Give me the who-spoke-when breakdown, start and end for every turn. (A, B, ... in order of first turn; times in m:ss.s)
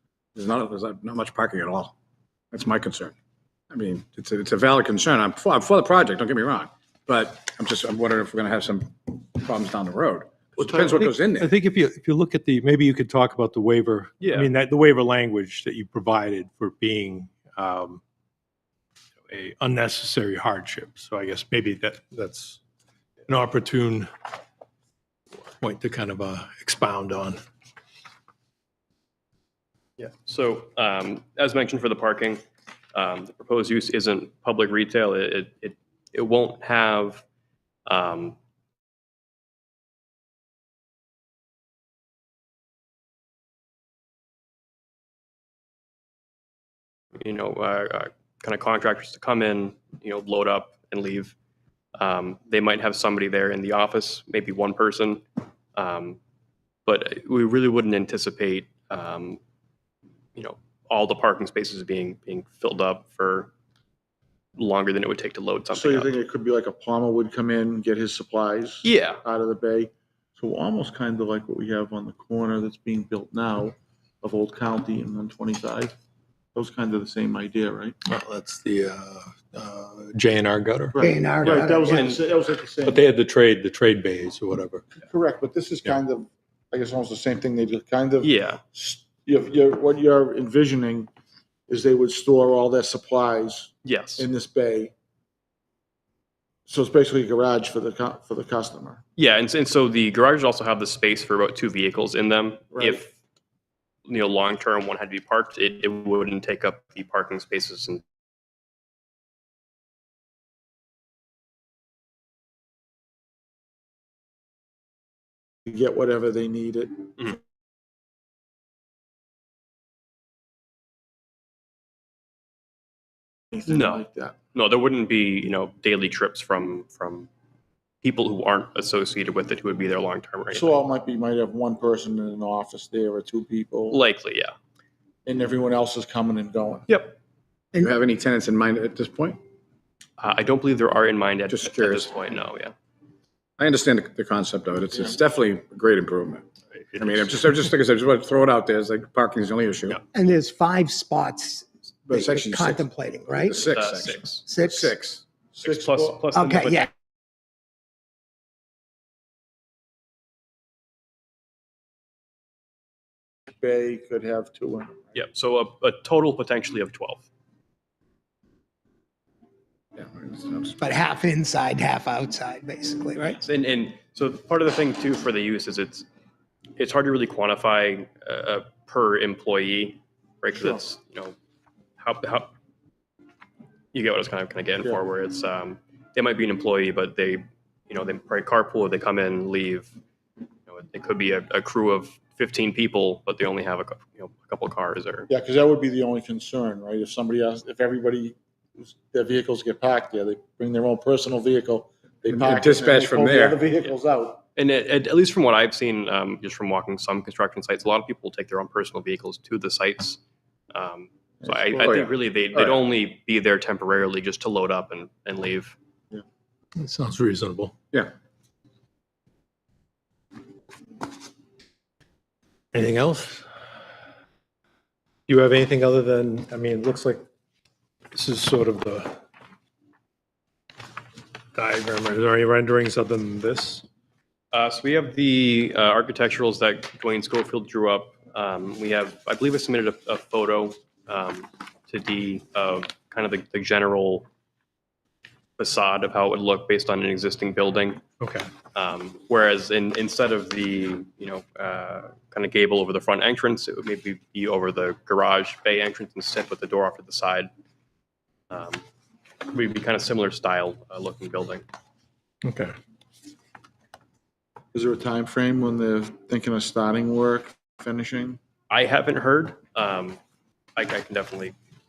0:00.4-0:01.9 A
0:02.5-0:03.1 A
0:03.7-0:11.5 A
0:10.6-0:11.0 B
0:10.9-0:18.0 C
0:14.2-0:14.5 D
0:19.3-0:22.6 C
0:23.3-0:24.1 C
0:25.6-0:27.4 C
0:30.0-0:32.4 D
0:33.0-0:37.2 D
0:37.9-0:38.4 D
0:47.2-0:51.3 D
0:52.0-0:55.2 D
0:55.8-0:56.2 D
0:56.9-0:59.4 D
1:00.4-1:03.5 D
1:04.6-1:06.1 D
1:05.7-1:15.9 B
1:08.8-1:09.2 D
1:16.6-1:18.0 B
1:18.1-1:21.0 C
1:20.9-1:23.0 B
1:21.0-1:22.1 E
1:21.5-1:22.2 D
1:22.8-1:24.9 C
1:25.0-1:31.1 B
1:28.2-1:28.6 D
1:31.7-1:34.9 B
1:33.8-1:34.3 D
1:36.7-1:39.0 B
1:39.2-1:43.1 D
1:42.7-1:43.0 B
1:44.1-1:48.0 D
1:55.7-1:57.1 B
2:03.5-2:04.4 B
2:03.7-2:07.3 D
2:08.0-2:10.8 D
2:10.5-2:14.0 B
2:13.9-2:14.5 D
2:15.2-2:16.9 B
2:16.9-2:17.2 D
2:17.8-2:19.4 A
2:20.2-2:22.7 D
2:21.5-2:22.1 A
2:23.6-2:26.5 A
2:27.0-2:30.0 A
2:30.1-2:33.6 E
2:32.1-2:35.2 A
2:33.5-2:34.5 D
2:34.4-2:35.0 E
2:35.6-2:36.2 B
2:35.6-2:36.9 D
2:36.3-2:36.9 E
2:43.5-2:45.2 B
2:45.1-2:47.3 D
2:50.0-2:50.8 A
2:50.8-2:53.4 E
2:53.4-2:56.1 D
2:56.8-3:01.4 D
3:00.5-3:00.8 B
3:02.0-3:02.5 D
3:03.9-3:09.9 D
3:10.7-3:15.3 D
3:15.3-3:24.4 B
3:22.3-3:23.6 A
3:24.6-3:30.2 D
3:30.7-3:35.8 D
3:31.4-3:31.9 B
3:31.7-3:32.8 A
3:36.8-3:37.7 C
3:42.7-3:43.4 C
3:45.3-3:47.3 C
3:48.1-3:49.2 C
3:51.6-3:53.8 C
3:54.5-4:04.3 D
4:05.6-4:08.0 D
4:08.2-4:08.5 C
4:08.7-4:17.5 D
4:18.5-4:18.8 D
4:19.5-4:21.6 D
4:22.4-4:22.7 C
4:24.7-4:28.4 B
4:28.7-4:30.2 D
4:30.8-4:31.6 D